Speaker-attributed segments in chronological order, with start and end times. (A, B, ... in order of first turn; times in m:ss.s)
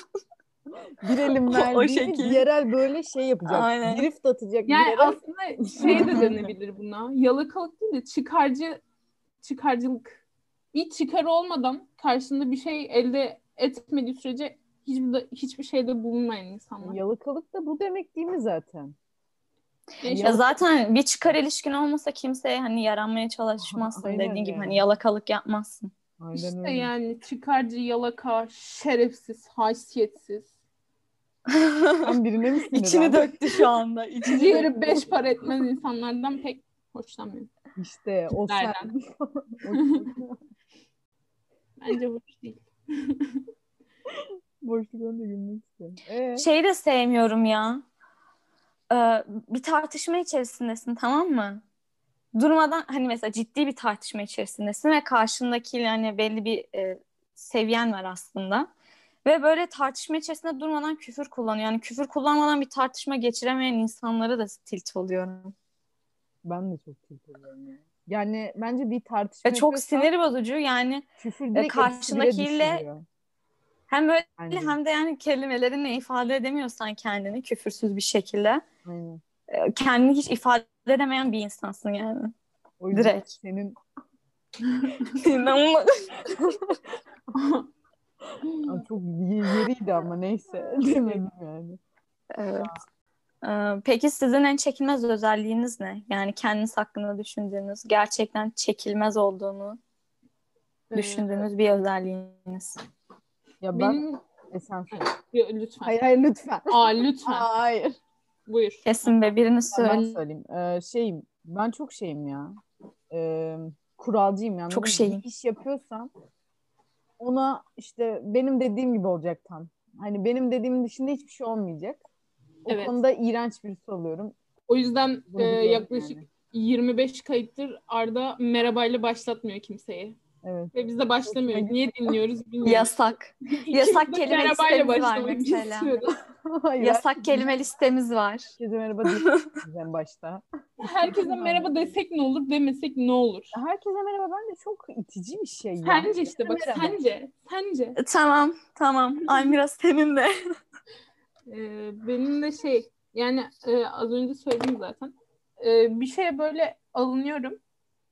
0:01.0-0:06.4 A
0:01.5-0:02.4 B
0:03.5-0:04.1 B
0:04.7-0:08.8 C
0:05.8-0:06.4 B
0:09.4-0:10.2 C
0:10.7-0:17.0 C
0:16.8-0:18.9 A
0:20.0-0:20.5 C
0:20.0-0:20.5 A
0:20.1-0:25.9 B
0:23.6-0:24.8 A
0:26.2-0:26.9 A
0:26.4-0:30.5 C
0:31.5-0:32.1 B
0:32.0-0:33.6 A
0:32.6-0:34.7 B
0:34.2-0:37.5 C
0:37.8-0:40.4 A
0:38.5-0:38.9 C
0:39.7-0:40.0 C
0:41.8-0:43.4 C
0:44.6-0:46.5 A
0:46.4-0:47.8 B
0:48.9-0:51.6 B
0:52.3-0:58.7 B
0:59.2-1:05.5 B
1:06.4-1:10.1 A
1:09.4-1:12.8 B
1:11.2-1:13.0 A
1:13.9-1:18.6 B
1:14.4-1:14.8 A
1:18.8-1:19.2 A
1:19.5-1:22.3 B
1:22.8-1:23.8 A
1:22.9-1:23.3 B
1:24.6-1:25.1 C
1:25.1-1:26.5 B
1:26.4-1:26.8 A
1:27.3-1:27.6 C
1:28.4-1:28.8 C
1:28.6-1:31.8 A
1:30.8-1:31.2 C
1:32.3-1:32.7 B
1:33.4-1:39.8 B
1:40.9-1:41.5 C
1:40.9-1:42.8 B
1:43.6-1:45.0 A
1:43.7-1:44.2 C
1:44.9-1:45.9 C
1:45.8-1:47.9 A
1:46.7-1:47.5 C
1:48.5-1:49.3 C
1:48.8-1:50.2 B
1:49.7-1:52.6 A
1:53.1-1:56.1 A
1:54.7-1:55.2 B
1:57.2-2:02.0 A
2:02.6-2:04.3 A
2:02.7-2:03.0 C
2:04.7-2:10.2 C
2:05.3-2:06.2 A
2:10.4-2:10.7 A
2:10.7-2:12.9 C
2:11.3-2:12.2 A
2:12.6-2:16.0 B
2:13.5-2:16.1 C
2:16.5-2:17.5 A
2:16.8-2:18.5 B
2:18.6-2:22.0 A
2:20.8-2:23.5 C
2:23.5-2:27.0 A
2:25.8-2:28.0 C
2:28.0-2:30.3 B
2:31.5-2:37.6 C